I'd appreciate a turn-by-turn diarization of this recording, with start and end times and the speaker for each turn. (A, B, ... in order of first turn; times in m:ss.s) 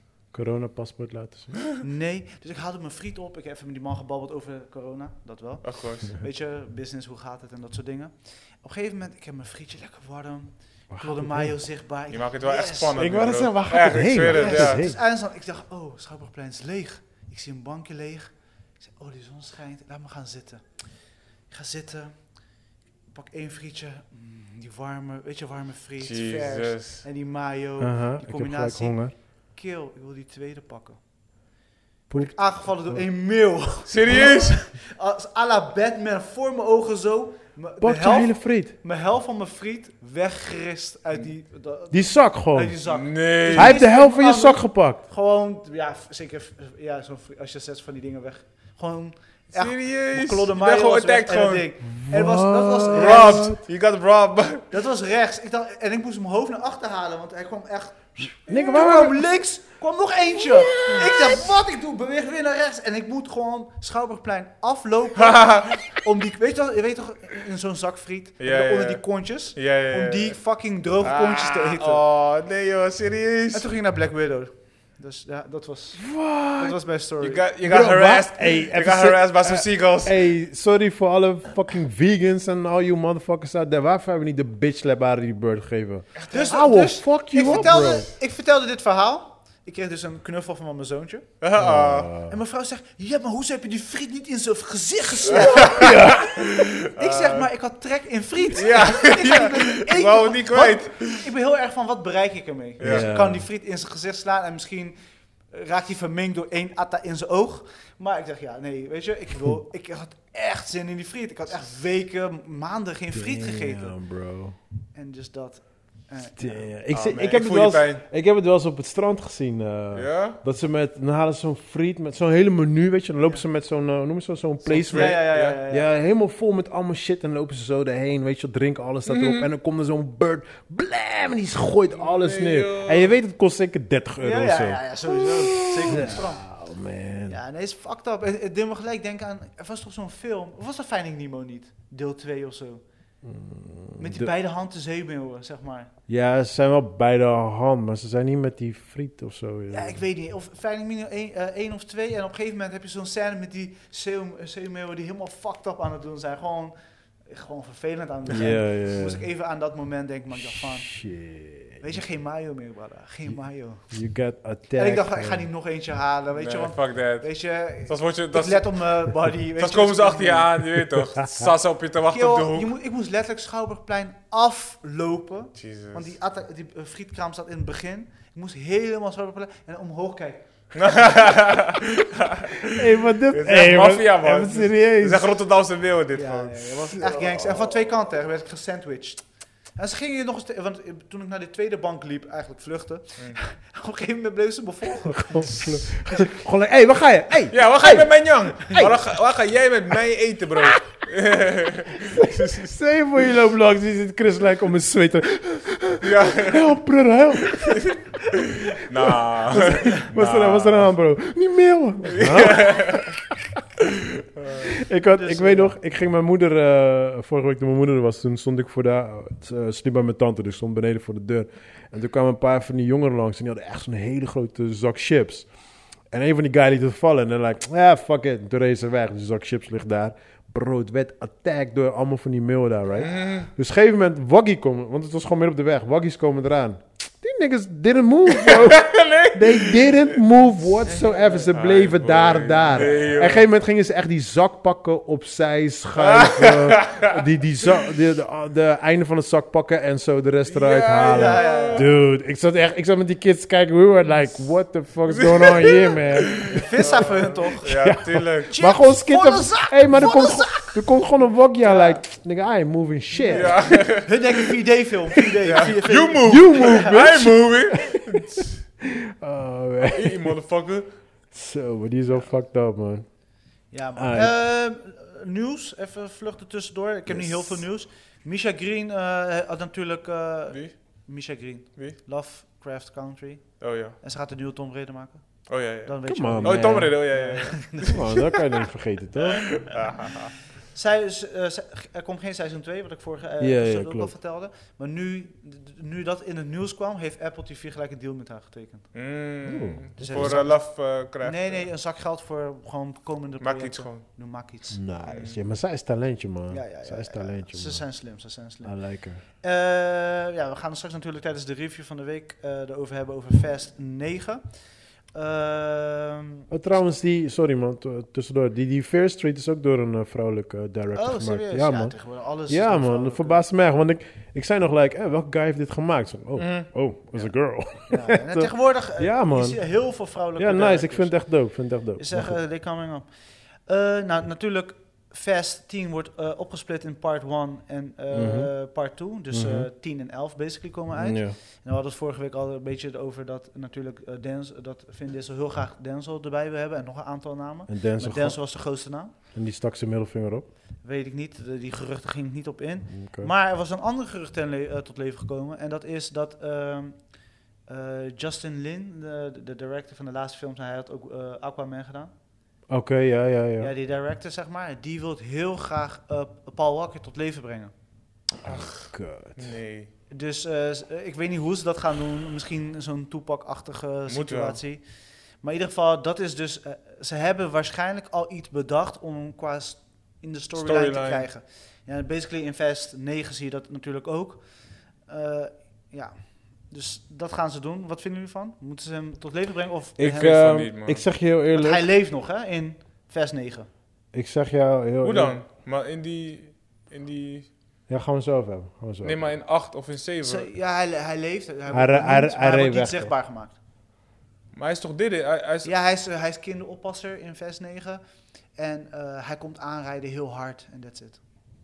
0:00.3-0:01.6 A
0:01.8-0:13.1 B
0:05.6-0:06.1 C
0:10.9-0:11.5 A
0:12.1-0:14.9 C
0:12.9-0:15.0 A
0:14.3-0:20.9 B
0:21.5-0:22.2 B
0:23.1-0:31.0 B
0:26.0-0:27.0 C
0:27.8-0:29.1 A
0:32.1-0:33.0 A
0:32.1-0:53.5 B
0:33.9-0:34.6 C
0:37.8-0:38.7 A
0:41.9-0:42.8 A
0:42.8-0:43.8 C
0:43.5-0:45.0 A
0:49.5-0:51.7 C
0:51.9-0:53.6 A
0:52.9-0:54.6 C
0:54.7-1:12.0 B
0:58.4-0:59.3 A
1:00.5-1:01.4 A
1:05.2-1:05.8 C
1:08.4-1:09.0 C
1:09.5-1:10.4 C
1:11.0-1:13.6 C
1:13.5-1:17.5 B
1:16.0-1:16.8 A
1:17.2-1:20.2 C
1:17.6-1:28.1 A
1:26.2-1:26.5 C
1:26.3-1:31.3 B
1:31.4-1:32.1 C
1:31.6-1:32.4 A
1:32.1-1:36.2 B
1:35.3-1:37.4 C
1:35.5-1:36.5 A
1:36.8-1:45.0 B
1:38.5-1:41.2 C
1:42.8-1:43.1 C
1:42.8-1:43.4 A
1:45.5-1:54.0 B
1:53.1-1:54.6 A
1:54.9-1:56.7 B
1:56.4-2:17.4 A
1:56.9-1:58.0 C
1:59.9-2:00.4 C
2:04.6-2:05.6 C
2:04.8-2:05.9 B
2:09.1-2:09.5 C
2:11.9-2:13.1 C
2:14.2-2:16.5 B
2:17.3-2:22.8 B
2:23.2-2:24.3 A
2:24.0-2:25.9 B
2:26.1-2:30.0 A
2:29.7-2:36.7 B
2:37.3-2:41.0 B
2:38.3-2:39.2 A
2:40.5-2:42.0 A
2:41.8-2:43.9 B
2:43.9-2:45.5 A
2:44.7-2:50.5 B
2:46.3-2:47.3 C
2:47.8-2:48.9 C
2:49.6-2:52.7 C
2:50.8-2:51.5 A
2:52.1-3:00.4 B
2:55.6-2:56.1 C
3:00.7-3:06.7 C
3:02.8-3:05.2 A
3:06.1-3:09.2 B
3:09.8-3:16.2 B
3:15.1-3:18.1 A
3:17.5-3:22.7 C
3:18.6-3:18.9 A
3:22.2-3:27.8 A
3:26.0-3:26.6 C
3:27.6-3:30.9 C
3:29.0-3:33.8 A
3:32.0-3:33.2 C
3:34.6-3:45.5 A
3:35.1-3:35.8 B
3:46.1-4:16.6 A
3:53.0-3:53.5 C
3:58.3-4:00.2 C
4:00.8-4:01.5 B
4:01.2-4:03.4 C
4:06.0-4:07.2 C
4:10.5-4:11.8 C
4:11.0-4:11.9 B
4:15.1-4:18.5 C
4:16.5-4:17.8 B
4:17.7-4:23.6 A
4:18.5-4:20.8 B
4:21.6-4:22.0 B
4:23.1-4:26.9 B
4:23.3-4:24.5 C
4:25.4-4:28.6 C
4:26.2-4:30.4 A
4:29.8-4:30.9 C
4:31.3-4:33.0 A
4:33.7-4:48.0 B
4:34.0-4:34.3 A
4:37.1-4:37.6 A
4:43.6-4:44.0 C
4:45.5-4:48.3 C
4:46.0-4:47.0 A
4:47.8-4:49.5 A
4:49.3-4:50.3 C
4:50.7-4:58.9 B
4:53.4-4:54.1 A
4:58.9-5:01.6 C
4:59.4-5:00.4 A
5:00.0-5:04.8 B
5:03.4-5:04.0 C
5:04.7-5:07.8 A
5:05.1-5:05.4 C
5:06.5-5:08.8 B
5:08.6-5:09.2 A
5:09.3-5:14.4 B
5:15.1-5:16.4 B
5:16.5-5:21.9 A
5:20.9-5:23.4 B
5:22.5-5:29.6 A
5:26.4-5:26.7 C
5:27.9-5:31.4 B
5:30.4-5:32.4 A
5:32.0-5:33.1 B
5:33.6-5:49.1 B
5:38.1-5:38.5 A
5:39.3-5:39.7 A
5:40.9-5:41.4 A
5:47.7-5:48.4 A
5:49.3-5:50.4 A
5:50.8-5:57.0 B
5:53.0-5:53.3 A
5:57.7-6:02.1 B
6:02.7-6:03.7 A
6:03.6-6:07.7 B
6:08.4-6:09.9 C
6:08.4-6:09.4 A
6:10.1-6:14.8 B
6:14.1-6:14.6 C
6:15.4-6:24.4 B
6:20.6-6:21.3 C
6:25.1-6:30.6 B
6:30.0-6:31.9 A
6:30.0-6:31.0 C
6:31.5-6:33.7 B
6:34.1-6:35.4 A
6:35.0-6:37.5 C
6:37.9-6:39.2 A
6:39.0-6:40.5 C
6:40.2-6:43.5 B
6:41.7-6:43.1 A
6:44.5-6:45.7 C
6:45.6-6:48.0 B
6:48.6-6:51.2 B